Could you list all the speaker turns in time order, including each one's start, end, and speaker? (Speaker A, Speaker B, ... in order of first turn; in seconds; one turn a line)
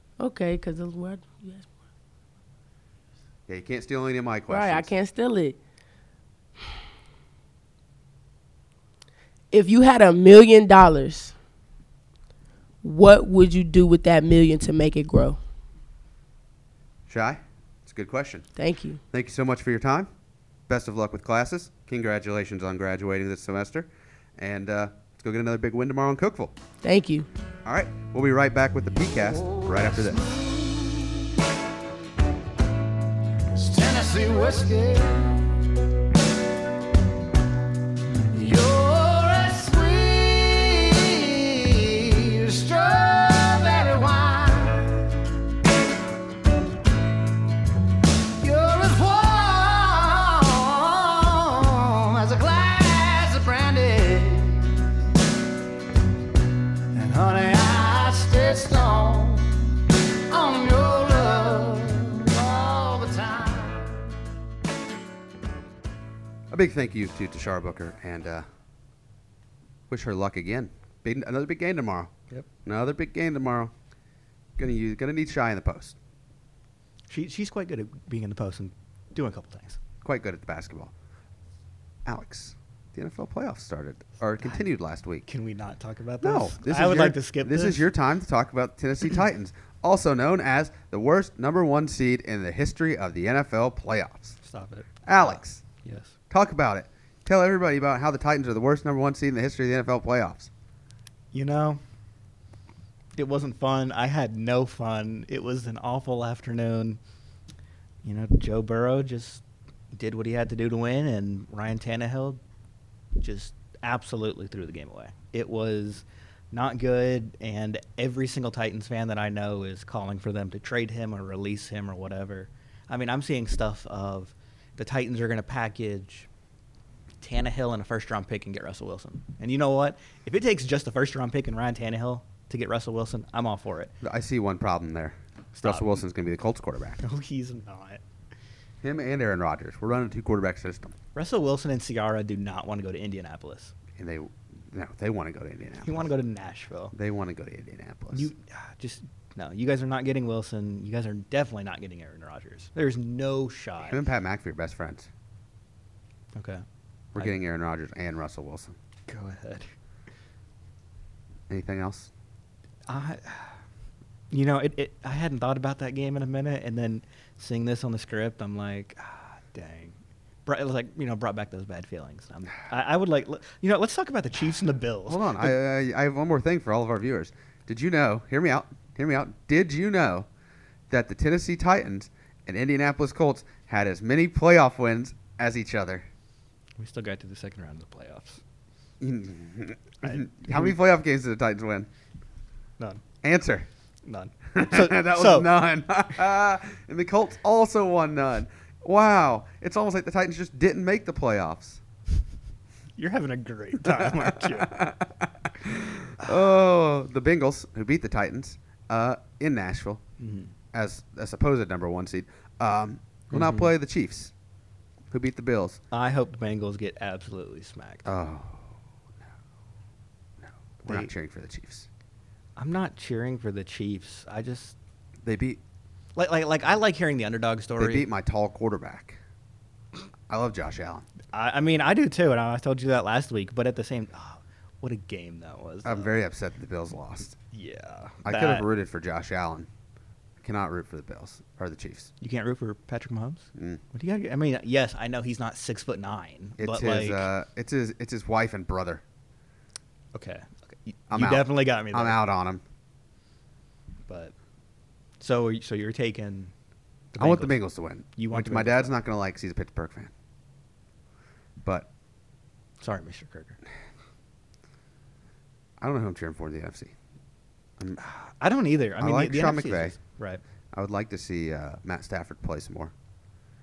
Speaker A: 0.2-1.7
Speaker B: 3.5-4.9
Speaker A: 4.5-5.6
Speaker A: 9.5-11.3
Speaker A: 12.8-15.4
Speaker B: 17.1-18.5
Speaker A: 18.6-19.0
Speaker B: 19.1-20.1
Speaker B: 20.7-26.5
Speaker A: 26.8-27.3
Speaker B: 27.6-30.2
Speaker C: 29.4-31.1
Speaker C: 33.5-35.5
Speaker C: 38.3-45.1
Speaker C: 48.4-54.9
Speaker C: 56.9-64.1
Speaker B: 66.5-68.5
Speaker B: 69.9-72.1
Speaker B: 72.6-73.7
Speaker B: 74.6-76.0
Speaker D: 77.1-79.8
Speaker B: 80.0-80.9
Speaker B: 82.0-85.2
Speaker D: 85.3-87.9
Speaker B: 86.2-94.4
Speaker D: 94.4-96.1
Speaker B: 95.0-95.6
Speaker B: 96.3-100.5
Speaker D: 101.3-101.8
Speaker D: 103.2-107.0
Speaker D: 108.0-112.4
Speaker D: 113.2-126.3
Speaker D: 127.2-133.9
Speaker B: 134.0-137.0
Speaker D: 135.6-135.9
Speaker D: 137.0-138.0
Speaker B: 138.8-140.9
Speaker D: 141.1-143.7
Speaker B: 143.9-146.1
Speaker D: 145.8-146.9
Speaker B: 146.9-148.3
Speaker D: 148.1-154.0
Speaker B: 153.8-155.1
Speaker D: 156.3-156.6
Speaker B: 157.1-158.8
Speaker D: 159.1-159.7
Speaker B: 161.5-162.1
Speaker D: 162.9-163.6
Speaker D: 164.3-175.5
Speaker B: 175.1-180.3
Speaker B: 180.9-186.1
Speaker D: 186.8-188.4
Speaker B: 189.0-191.9
Speaker D: 190.0-190.7
Speaker B: 193.2-193.7
Speaker D: 194.1-195.5
Speaker B: 194.5-201.8
Speaker D: 203.0-204.9
Speaker B: 204.4-210.0
Speaker D: 210.2-210.5
Speaker B: 210.7-214.3
Speaker D: 213.3-213.7
Speaker B: 215.1-215.8
Speaker D: 215.9-218.1
Speaker B: 218.0-218.8
Speaker B: 220.4-221.9
Speaker D: 220.8-221.1
Speaker D: 222.6-224.7
Speaker B: 225.2-225.6
Speaker D: 226.2-228.1
Speaker B: 227.8-229.2
Speaker B: 230.3-231.1
Speaker D: 231.3-236.1
Speaker B: 235.8-237.3
Speaker D: 237.5-238.7
Speaker B: 238.2-239.7
Speaker B: 240.4-242.1
Speaker D: 242.2-247.3
Speaker B: 243.6-243.8
Speaker B: 246.6-249.0
Speaker D: 250.1-252.2
Speaker B: 251.1-252.6
Speaker D: 254.1-254.3
Speaker D: 255.2-256.5
Speaker D: 257.1-257.6
Speaker B: 257.2-260.1
Speaker D: 258.1-258.9
Speaker B: 261.6-261.9
Speaker D: 262.8-263.6
Speaker B: 265.8-266.9
Speaker D: 268.0-270.4
Speaker B: 269.0-269.9
Speaker B: 270.7-272.9